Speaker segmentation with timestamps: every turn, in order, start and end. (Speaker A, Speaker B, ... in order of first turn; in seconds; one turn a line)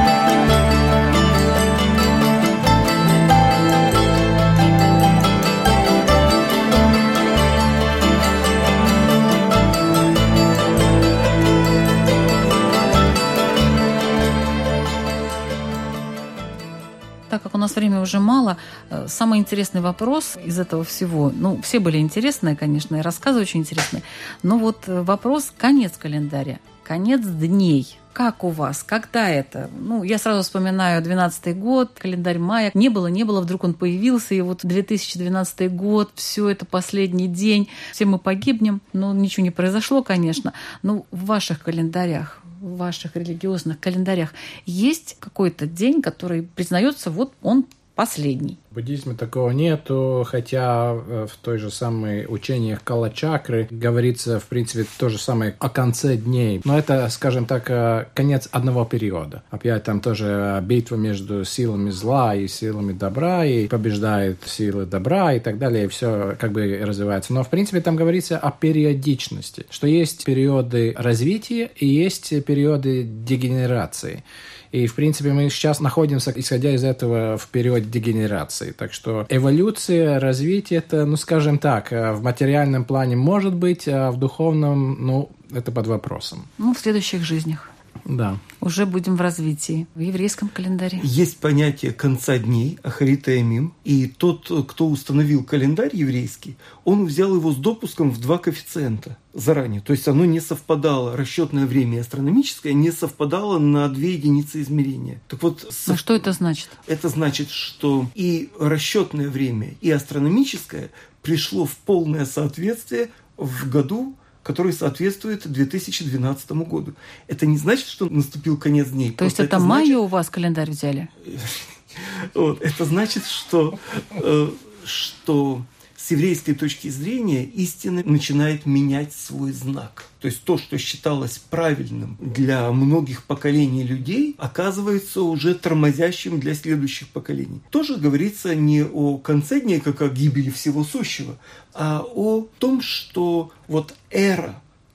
Speaker A: 17.3-48.6
Speaker B: 48.7-86.5
Speaker A: 86.6-87.7
Speaker B: 88.1-88.4
Speaker A: 88.6-91.1
Speaker C: 91.0-106.3
Speaker A: 105.9-106.8
Speaker C: 106.8-120.0
Speaker A: 119.2-121.1
Speaker C: 121.2-144.6